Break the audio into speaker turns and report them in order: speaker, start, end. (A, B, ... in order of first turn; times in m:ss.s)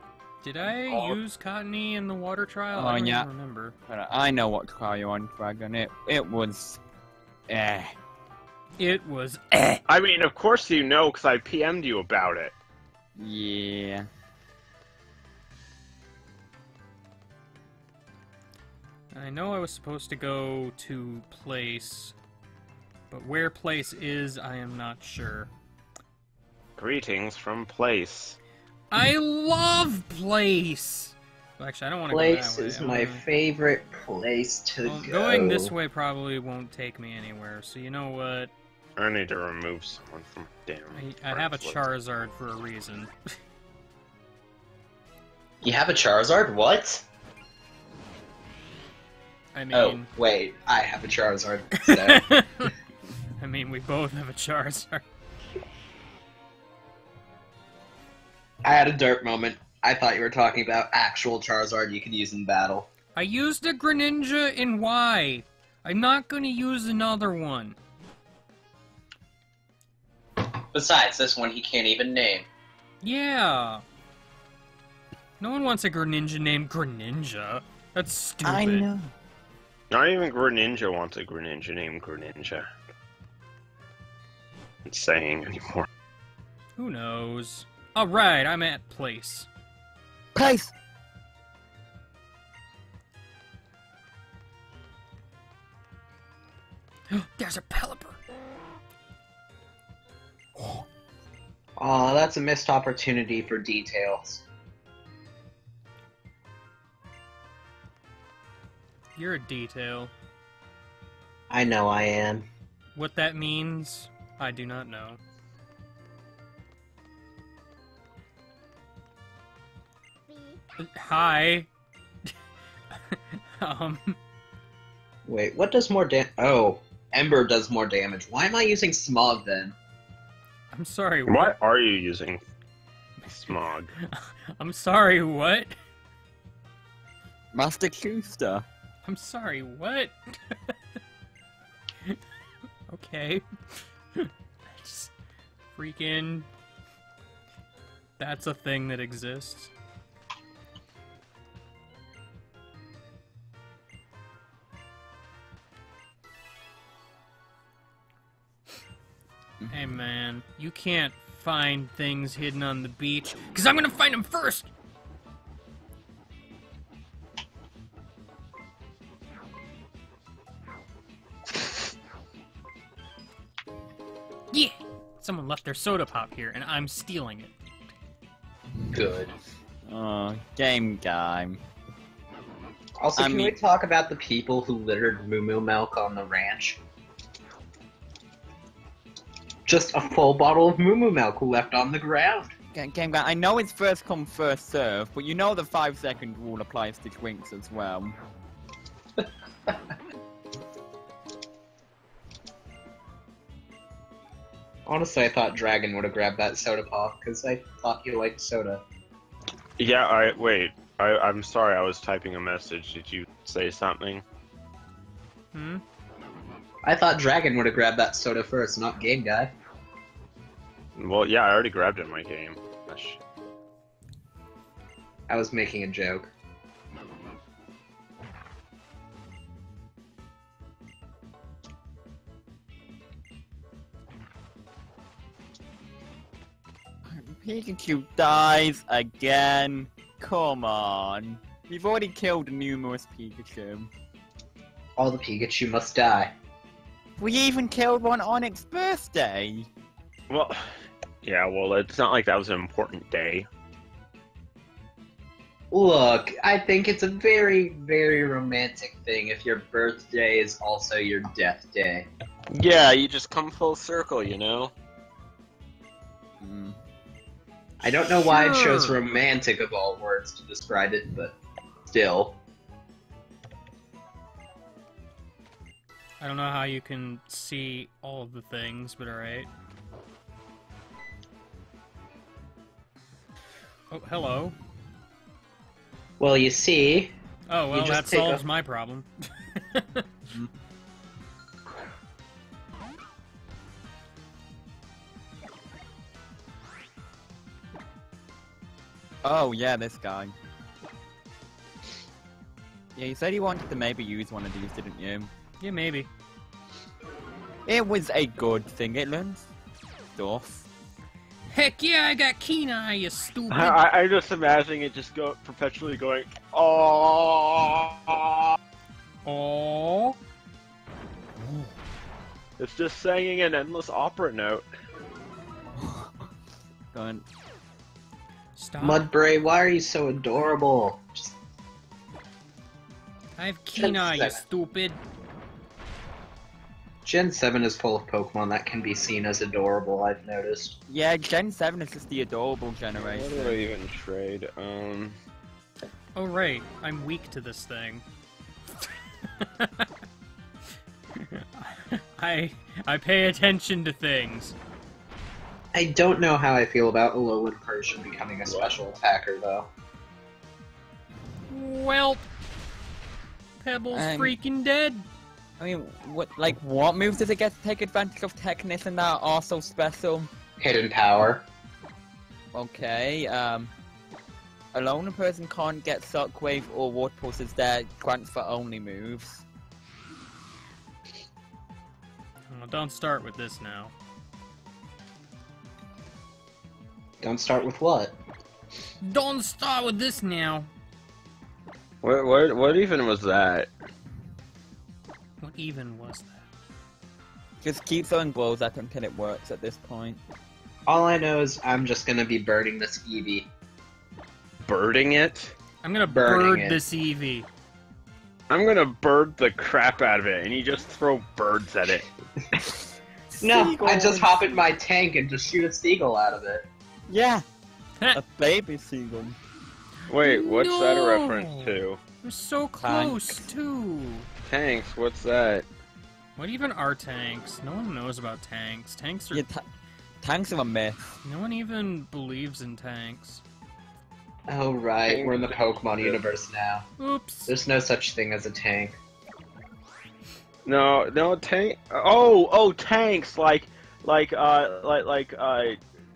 0:00.4-0:03.8 A
0:00.9-0:01.2 B
0:02.7-0:03.3 C
0:03.9-0:06.8 C
0:07.5-0:08.0 C
0:08.8-0:09.8 A
0:09.9-0:12.6 B
0:13.2-0:14.1 C
0:19.1-0:22.2 A
0:23.1-0:25.5 A
0:26.8-0:28.4 B
0:28.9-0:33.2 A
0:32.1-0:35.7 D
0:34.8-0:38.5 A
0:39.0-0:41.8 B
0:40.9-0:43.1 A
0:45.6-0:47.0 D
0:49.5-0:50.1 A
0:49.7-0:52.3 D
0:52.1-0:52.7 A
0:53.4-0:55.0 A
0:58.6-1:02.9 D
1:03.2-1:07.8 A
1:10.7-1:12.5 D
1:13.0-1:13.8 A
1:15.4-1:18.8 A
1:18.4-1:19.1 C
1:19.9-1:22.7 B
1:24.9-1:25.9 B
1:26.8-1:29.5 A
1:30.4-1:30.7 C
1:37.1-1:38.2 A
1:41.8-1:44.4 D
1:49.2-1:50.1 A
1:51.5-1:52.5 D
1:53.0-1:55.2 A
2:00.8-2:01.7 A
2:02.9-2:04.2 A
2:05.3-2:09.8 D
2:10.7-2:11.6 A
2:11.3-2:12.4 B
2:13.2-2:15.7 A
2:13.4-2:13.9 B
2:17.5-2:18.7 C
2:19.0-2:20.7 A
2:22.9-2:23.4 A
2:24.1-2:25.1 A
2:25.7-2:26.5 A
2:28.2-2:29.7 A
2:39.6-2:40.0 C
2:39.7-2:44.7 A
2:54.5-2:57.5 A
2:58.9-2:59.3 D
2:59.9-3:01.6 C
3:03.0-3:06.8 D
3:03.2-3:03.6 C
3:09.7-3:12.5 D
3:12.7-3:18.2 C
3:24.9-3:28.8 D
3:29.8-3:34.2 B
3:35.5-3:35.8 A
3:36.8-3:39.5 D
3:41.0-3:43.2 B
3:45.3-3:46.3 D
3:57.1-4:03.9 C
4:05.0-4:06.3 D
4:07.2-4:09.7 C
4:10.3-4:10.6 B
4:11.2-4:13.5 B
4:15.7-4:22.1 D
4:22.5-4:24.7 B
4:26.4-4:26.8 C
4:27.8-4:31.4 D
4:28.2-4:29.0 A
4:31.9-4:32.4 D
4:36.2-4:39.5 A
4:43.9-4:44.6 A
4:46.2-4:47.1 D
4:47.5-4:50.0 A
4:47.7-4:48.4 D
4:59.2-5:00.4 C
5:03.0-5:05.3 C
5:05.6-5:06.1 A
5:07.7-5:09.5 C
5:10.2-5:10.7 C
5:11.5-5:13.8 A
5:13.5-5:18.6 B
5:19.2-5:20.2 A
5:21.4-5:21.7 C
5:22.6-5:24.6 B
5:25.8-5:26.2 C
5:26.9-5:27.2 C
5:28.6-5:29.1 A
5:28.8-5:31.3 D
5:33.4-5:35.0 A
5:33.8-5:34.4 D
5:37.0-5:40.8 D
5:40.9-5:43.6 C
5:43.0-5:45.2 B
5:46.2-5:48.0 A
5:49.4-5:49.9 A
5:51.2-5:54.6 A
5:55.7-5:59.7 D
5:58.5-5:58.8 B
6:01.5-6:02.3 A
6:03.6-6:05.1 A
6:03.9-6:04.4 C
6:05.6-6:10.3 C
6:10.6-6:11.4 D
6:12.5-6:13.7 C
6:14.7-6:19.4 C
6:22.5-6:23.9 A
6:27.2-6:28.2 D
6:29.0-6:30.7 A
6:32.0-6:33.7 B
6:35.4-6:36.5 A
6:37.6-6:40.2 C
6:40.9-6:43.5 D
6:44.7-6:45.6 B
6:45.8-6:47.5 A
6:46.1-6:46.8 D
6:48.5-6:52.1 B
6:53.3-6:54.6 C
6:53.4-6:56.7 D
6:57.1-6:57.4 C
6:58.1-6:59.4 C
7:00.1-7:02.0 B
7:00.2-7:04.3 A
7:02.8-7:03.5 C
7:04.5-7:05.7 B
7:06.4-7:09.4 A
7:09.3-7:09.7 C
7:10.2-7:11.2 C
7:11.2-7:13.4 A
7:14.5-7:16.9 D
7:15.1-7:16.2 B
7:17.0-7:17.5 A
7:17.5-7:19.0 D
7:20.7-7:25.8 B